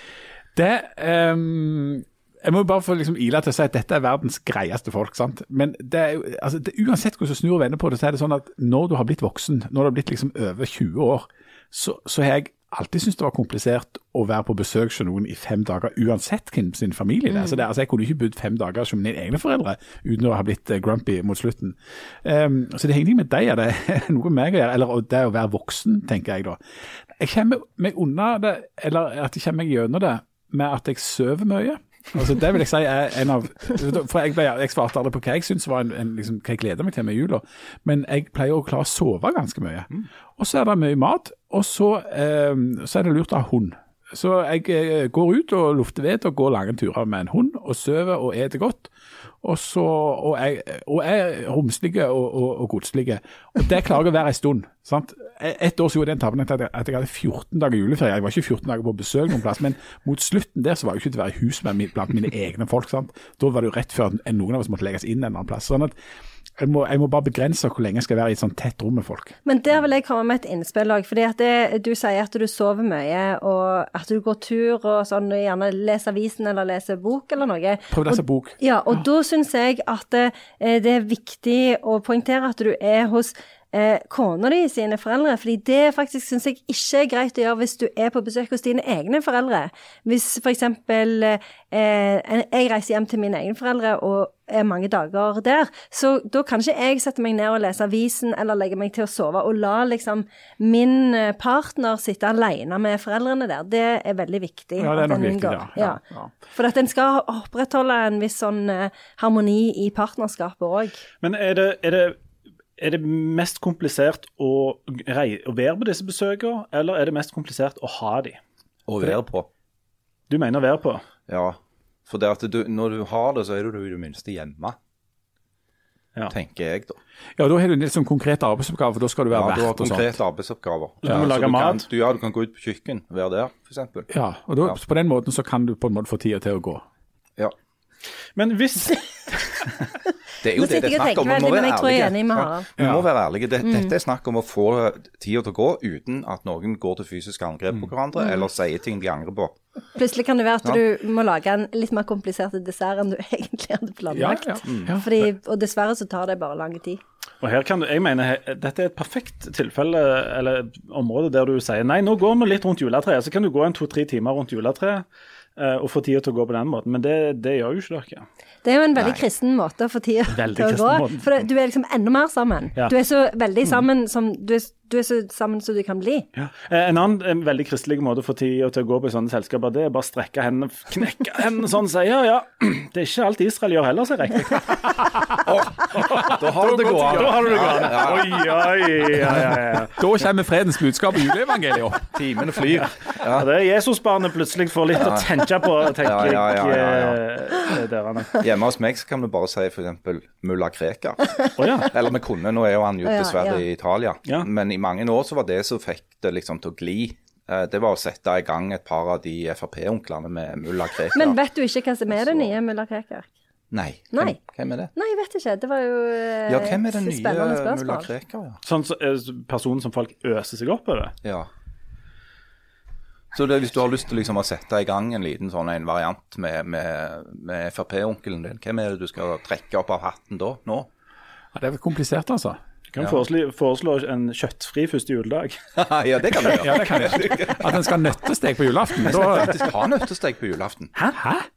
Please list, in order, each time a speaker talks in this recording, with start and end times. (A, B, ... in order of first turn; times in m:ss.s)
0:00.5-0:26.6 A
0:27.2-0:48.9 A
0:49.4-1:05.9 A
1:06.6-1:09.3 A
1:09.4-1:46.0 B
1:17.9-1:18.6 A
1:44.8-1:46.3 A
1:46.5-1:51.0 B
1:51.2-1:52.2 C
1:52.8-1:58.4 C
1:58.9-1:59.5 D
2:00.3-2:01.0 C
2:01.3-2:04.8 D
2:06.3-2:07.0 D
2:07.4-2:10.2 A
2:09.3-2:14.1 D
2:11.0-2:11.8 C
2:14.1-2:16.8 A
2:18.4-2:19.7 C
2:20.4-2:29.6 D
2:20.5-2:22.7 B
2:22.8-2:23.0 A
2:23.6-2:23.9 B
2:28.2-2:28.4 B
2:29.9-2:37.0 B
2:34.1-2:35.3 A
2:34.6-2:34.9 D
2:37.4-2:48.2 C
2:48.6-2:56.3 B
2:49.0-2:49.2 D
2:50.3-2:51.4 C
2:56.4-3:05.0 C
3:05.3-3:08.6 D
3:05.9-3:10.0 C
3:06.5-3:07.4 A
3:09.9-3:12.2 A
3:12.1-3:13.5 D
3:13.2-3:18.4 C
3:15.0-3:15.3 D
3:16.0-3:17.2 D
3:18.4-3:31.4 D
3:21.6-3:21.9 C
3:23.0-3:23.6 B
3:31.1-3:33.3 B
3:32.1-3:32.5 D
3:33.7-3:34.9 D
3:34.1-3:34.4 B
3:35.0-3:38.1 B
3:36.5-3:38.6 D
3:38.6-3:41.1 C
3:41.2-3:41.5 D
3:43.3-3:50.9 D
3:51.5-3:52.6 A
3:52.9-3:55.6 C
3:55.8-3:57.8 D
3:56.5-3:59.6 A
3:59.0-4:00.9 D
4:01.2-4:01.5 A